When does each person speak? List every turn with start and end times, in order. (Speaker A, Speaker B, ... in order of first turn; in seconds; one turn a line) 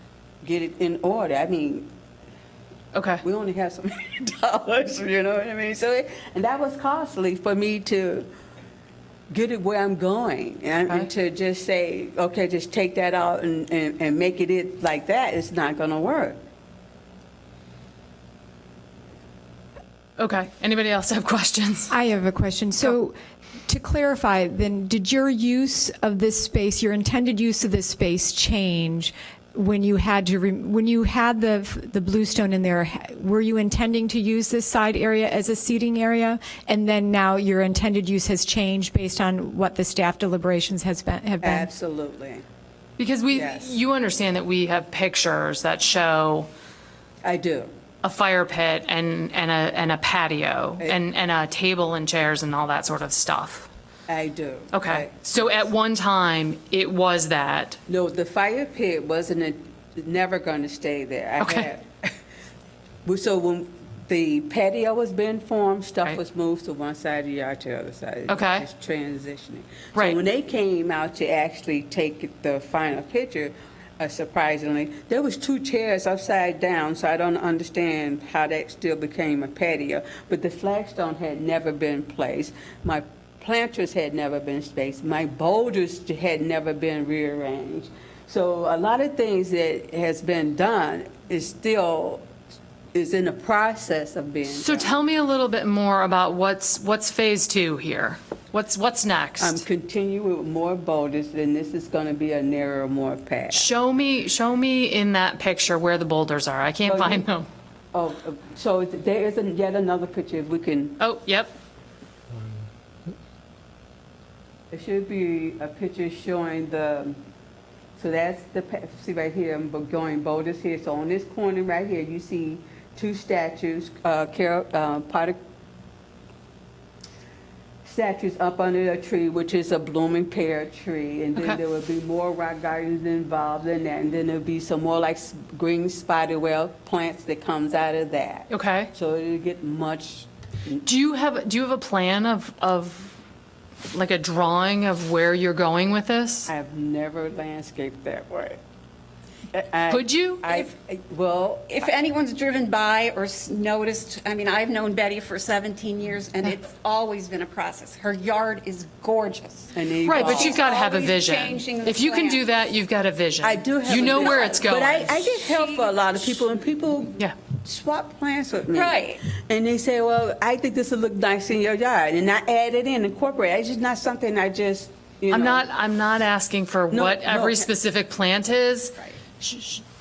Speaker A: 0.4-1.9
Speaker B: 2.9-3.2
Speaker A: 3.2-8.3
Speaker A: 9.3-16.4
Speaker B: 20.2-21.9
Speaker C: 21.9-23.1
Speaker C: 23.7-41.7
Speaker A: 41.4-42.4
Speaker B: 43.0-46.5
Speaker A: 43.3-43.7
Speaker A: 47.2-47.7
Speaker B: 48.0-53.7
Speaker A: 54.1-55.6
Speaker B: 54.7-57.8
Speaker A: 57.9-62.1
Speaker B: 61.4-61.7
Speaker A: 63.0-92.2
Speaker B: 68.3-68.6
Speaker A: 92.9-95.0
Speaker B: 94.5-99.6
Speaker A: 99.4-103.7
Speaker B: 103.5-107.5
Speaker A: 106.8-107.3
Speaker A: 107.9-111.0
Speaker B: 111.0-111.5
Speaker A: 114.7-117.2
Speaker A: 118.0-125.4
Speaker A: 127.8-140.8
Speaker B: 138.5-138.9
Speaker B: 140.8-143.1
Speaker B: 143.9-146.5
Speaker A: 146.5-148.6
Speaker A: 149.5-151.8
Speaker B: 149.9-150.4
Speaker D: 151.7-162.4
Speaker A: 159.7-160.7
Speaker B: 160.0-165.2
Speaker A: 163.4-175.7
Speaker D: 163.9-164.8
Speaker D: 165.4-165.9
Speaker D: 168.7-169.2
Speaker B: 175.3-179.8
Speaker A: 176.9-177.7